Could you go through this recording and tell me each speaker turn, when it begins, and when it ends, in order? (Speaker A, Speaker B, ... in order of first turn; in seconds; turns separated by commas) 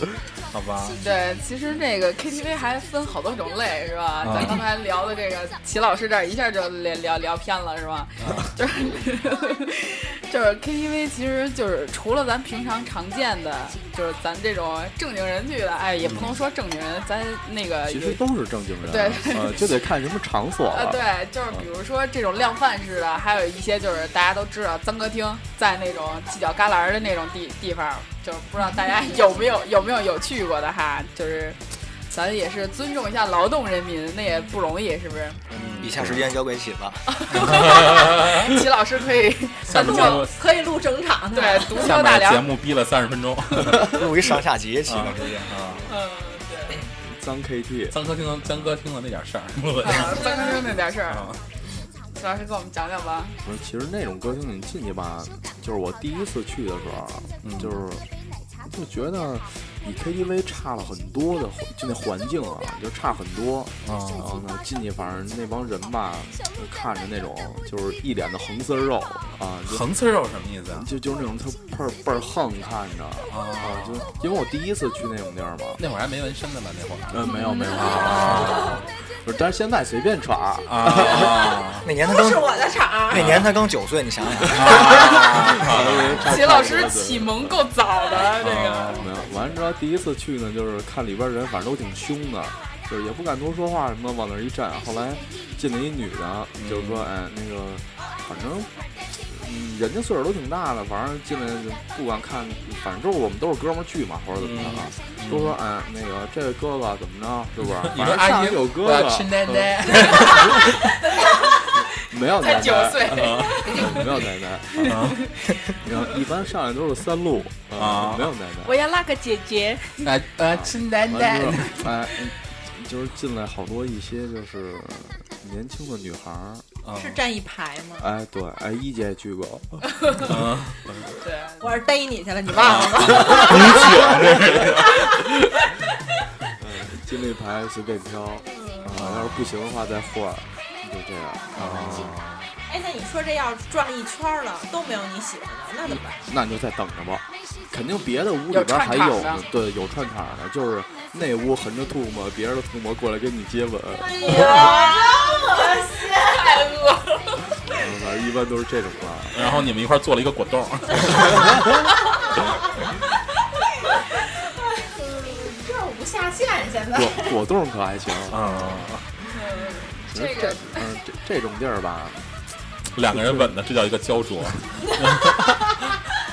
Speaker A: 0.5-1.0, Speaker B: 0.9-18.2, Speaker A: 4.2-4.6, Speaker A: 8.2-8.5, Speaker A: 16.0-16.3, Speaker C: 17.9-21.7, Speaker B: 18.8-19.6, Speaker B: 20.7-35.4, Speaker A: 35.5-36.3, Speaker D: 35.8-37.2, Speaker B: 37.1-40.3, Speaker A: 37.3-38.6, Speaker A: 39.7-40.3, Speaker E: 39.7-41.8, Speaker B: 41.3-42.4, Speaker A: 41.7-44.0, Speaker D: 43.7-45.5, Speaker A: 44.9-45.9, Speaker B: 45.9-46.8, Speaker C: 47.0-48.0, Speaker A: 47.9-50.2, Speaker B: 49.8-51.3, Speaker E: 50.1-50.5, Speaker A: 51.1-51.4, Speaker B: 52.1-53.4, Speaker C: 53.4-58.0, Speaker A: 57.4-57.8, Speaker C: 58.6-69.9, Speaker A: 63.8-64.3, Speaker A: 69.7-70.9, Speaker C: 70.7-75.8, Speaker A: 73.3-74.1, Speaker A: 75.8-77.2, Speaker C: 77.1-81.7, Speaker B: 77.2-78.3, Speaker A: 77.8-78.8, Speaker A: 80.7-81.9, Speaker D: 81.8-82.6, Speaker E: 82.0-83.4, Speaker D: 83.1-85.2, Speaker A: 83.1-83.6, Speaker A: 84.5-86.2, Speaker C: 84.6-87.6, Speaker B: 86.2-89.0, Speaker A: 88.4-89.1, Speaker C: 88.9-110.7, Speaker A: 96.6-97.0, Speaker A: 104.4-105.6, Speaker A: 107.6-110.8, Speaker B: 110.0-110.7, Speaker B: 111.2-111.4, Speaker C: 112.0-115.2, Speaker B: 112.3-114.0, Speaker A: 113.1-114.1, Speaker A: 114.8-115.2, Speaker C: 115.8-118.8, Speaker A: 117.8-118.3, Speaker B: 118.6-120.1, Speaker A: 120.0-121.9, Speaker C: 120.5-126.7, Speaker A: 126.8-127.2, Speaker E: 126.9-128.1, Speaker C: 128.0-130.3, Speaker A: 130.2-131.2, Speaker B: 131.2-131.7, Speaker E: 131.6-134.4, Speaker A: 132.5-135.5, Speaker C: 136.6-142.2, Speaker A: 138.9-139.5, Speaker A: 141.6-142.5, Speaker E: 142.7-146.2, Speaker C: 145.8-154.4, Speaker B: 148.5-149.4, Speaker E: 154.0-156.7, Speaker B: 154.2-157.5, Speaker C: 157.7-159.5, Speaker A: 159.3-161.7, Speaker E: 164.7-167.3, Speaker C: 166.9-168.9, Speaker A: 168.3-169.1, Speaker B: 169.3-170.8, Speaker C: 170.1-172.3, Speaker A: 172.9-175.8, Speaker C: 173.0-173.6